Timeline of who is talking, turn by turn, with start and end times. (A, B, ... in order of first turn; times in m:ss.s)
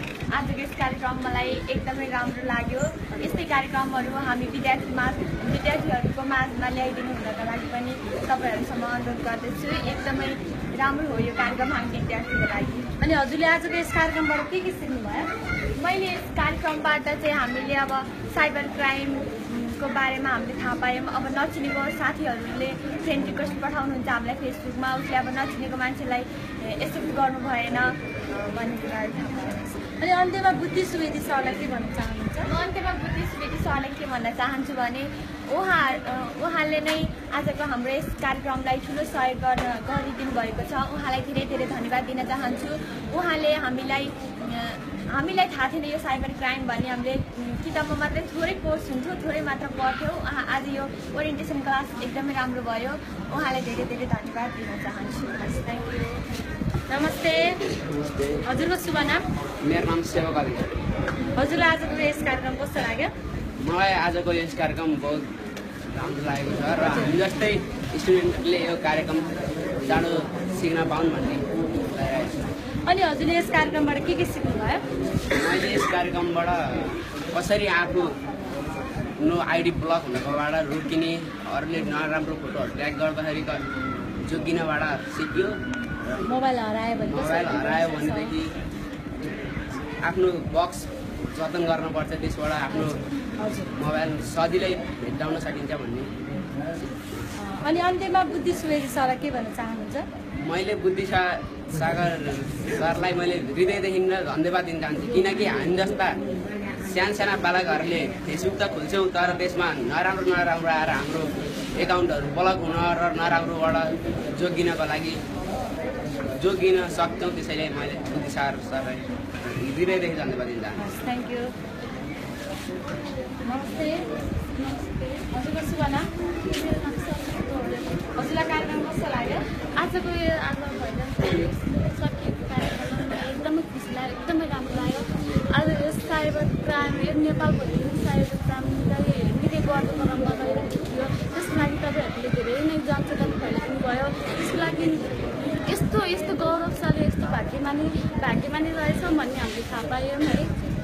0:00.3-0:12.9 A
0:13.0-0:15.3 B
0:15.8-0:29.9 A
0:30.0-0:32.5 B
0:32.4-0:56.0 A
0:56.9-0:57.6 B
0:58.4-0:59.2 B
0:59.6-1:00.7 C
1:01.3-1:03.1 B
1:03.6-1:05.3 C
1:06.0-1:12.4 C
1:12.9-1:14.8 B
1:15.3-1:18.2 C
1:19.2-1:23.6 C
1:24.2-1:25.6 C
1:26.2-1:28.3 B
1:27.0-1:28.6 C
1:30.0-1:33.0 C
1:33.6-1:36.1 C
1:37.4-1:40.1 B
1:40.4-1:46.2 C
1:46.8-1:55.2 C
1:56.4-2:00.9 C
2:00.8-2:01.5 B
2:03.4-2:09.6 B
2:09.8-2:25.1 D
2:25.6-2:30.5 D